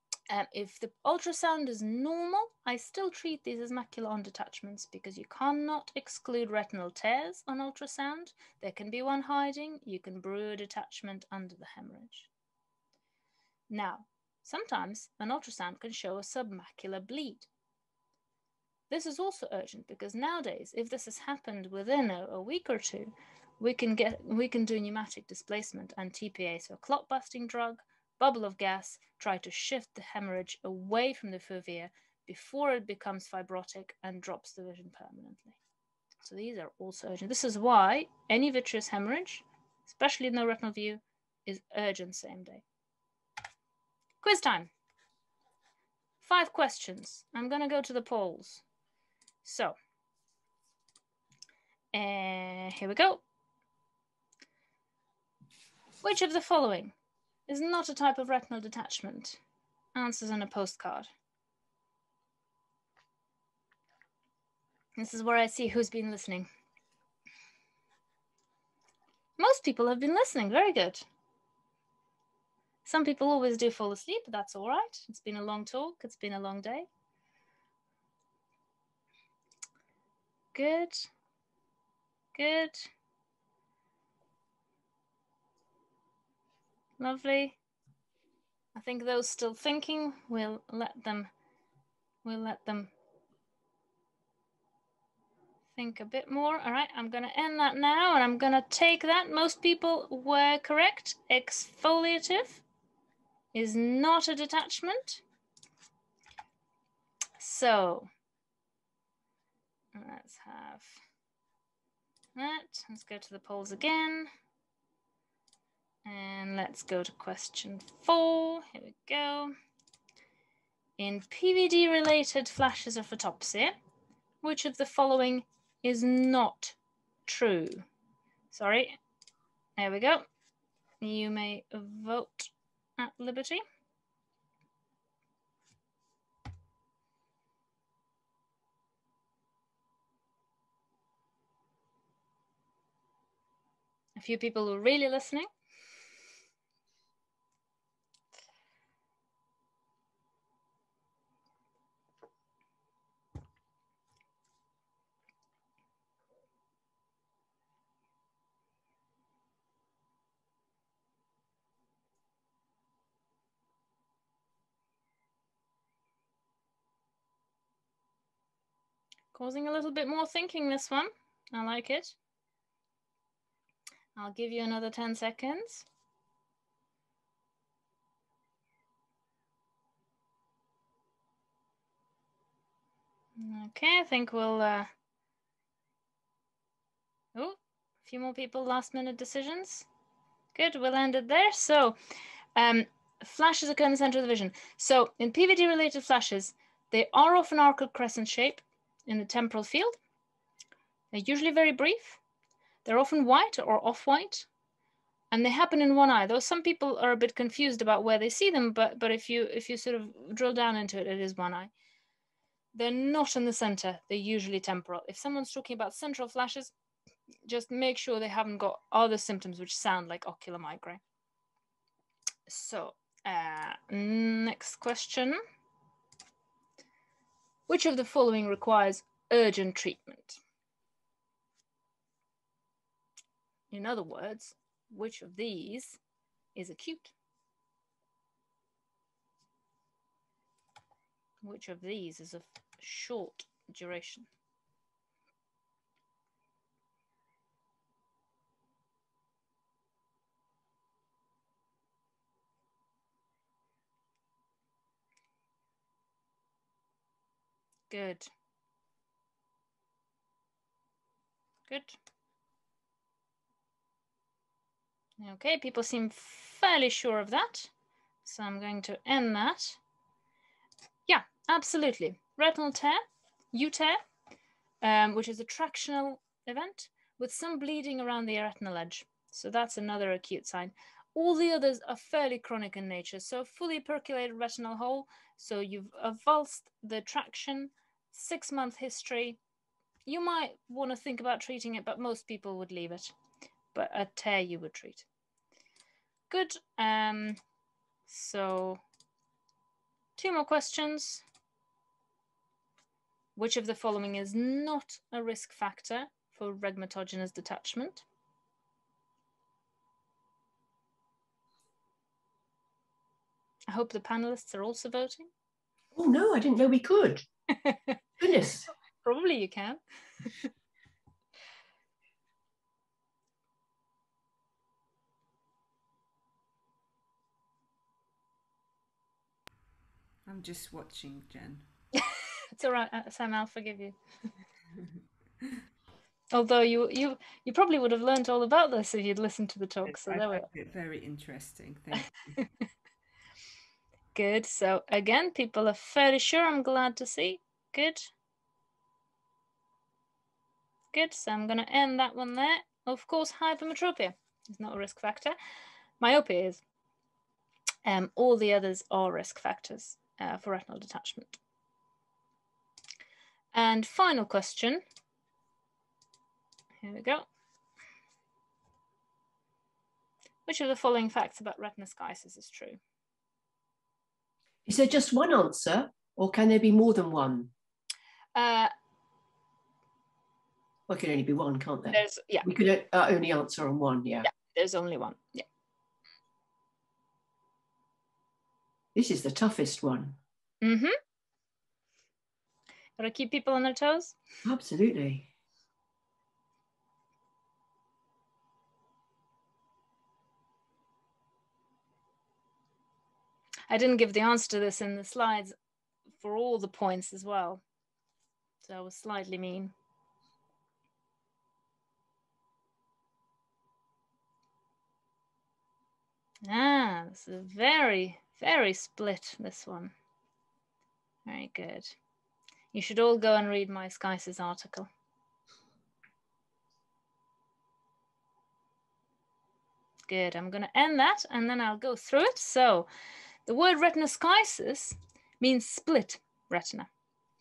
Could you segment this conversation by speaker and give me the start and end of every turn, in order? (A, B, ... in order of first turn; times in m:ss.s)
0:00.3-0:12.3 A
0:13.7-0:17.5 A
0:18.9-0:35.6 A
0:36.2-0:42.6 A
0:44.2-0:44.7 A
0:46.2-0:48.6 A
0:49.4-0:49.8 A
0:51.9-0:53.2 A
0:56.0-0:57.0 A
0:57.5-0:59.4 A
1:00.0-1:01.1 A
1:05.0-1:06.5 A
1:09.4-1:11.0 A
1:12.8-1:16.9 A
1:20.5-1:21.1 A
1:22.4-1:22.9 A
1:27.0-1:27.6 A
1:28.8-1:31.3 A
1:32.2-1:32.9 A
1:35.8-1:42.6 A
1:43.5-1:45.2 A
1:47.4-1:48.1 A
1:49.9-1:51.0 A
1:52.4-1:54.3 A
1:56.0-1:59.5 A
2:01.0-2:03.8 A
2:04.4-2:07.8 A
2:08.5-2:09.0 A
2:09.8-2:10.3 A
2:11.0-2:13.6 A
2:24.2-2:25.5 A
2:49.3-2:52.2 A
2:54.2-2:55.9 A
3:03.4-3:04.9 A
3:07.4-3:09.9 A
3:10.5-3:12.0 A
3:12.6-3:20.0 A
3:21.1-3:22.2 A
3:22.8-3:24.5 A
3:25.3-3:31.7 A
3:32.8-3:36.7 A
3:37.5-3:41.0 A
3:42.5-3:45.4 A
3:47.7-3:50.4 A
3:53.7-3:56.0 A
3:56.6-3:57.1 A
4:01.4-4:04.3 A
4:17.9-4:18.3 A
4:21.7-4:22.0 A
4:25.2-4:27.7 A
4:28.2-4:29.8 A
4:31.1-4:34.0 A
4:34.8-4:49.4 A
4:50.1-4:53.1 A
4:53.7-4:55.1 A
4:56.3-4:57.4 A
4:58.1-4:58.8 A
5:00.2-5:01.2 A
5:03.4-5:08.1 A
5:13.7-5:15.3 A
5:16.0-5:17.3 B
5:17.6-5:17.9 A
5:18.2-5:18.7 B
5:19.0-5:20.4 A
5:30.3-5:31.6 C
5:32.6-5:34.0 A
5:36.3-5:40.5 A
5:39.9-5:42.2 C
5:44.2-5:48.1 A
5:50.9-5:55.4 A
5:56.0-5:56.6 A
5:57.8-6:01.4 A
6:03.5-6:04.8 A
6:06.8-6:07.3 A
6:10.5-6:12.8 A
6:14.7-6:17.5 B
6:18.4-6:18.7 A
6:20.9-6:24.3 B
6:21.9-6:22.5 A
6:24.2-6:25.5 A
6:29.0-6:30.2 B
6:30.6-6:31.0 A
6:33.0-6:34.2 A
6:34.4-6:35.3 B
6:43.7-6:45.6 A
6:46.2-6:47.6 A
6:48.6-6:49.7 A
6:56.4-6:59.9 A
7:01.3-7:02.0 A
7:02.7-7:04.9 A
7:10.1-7:12.9 A
7:13.5-7:16.9 A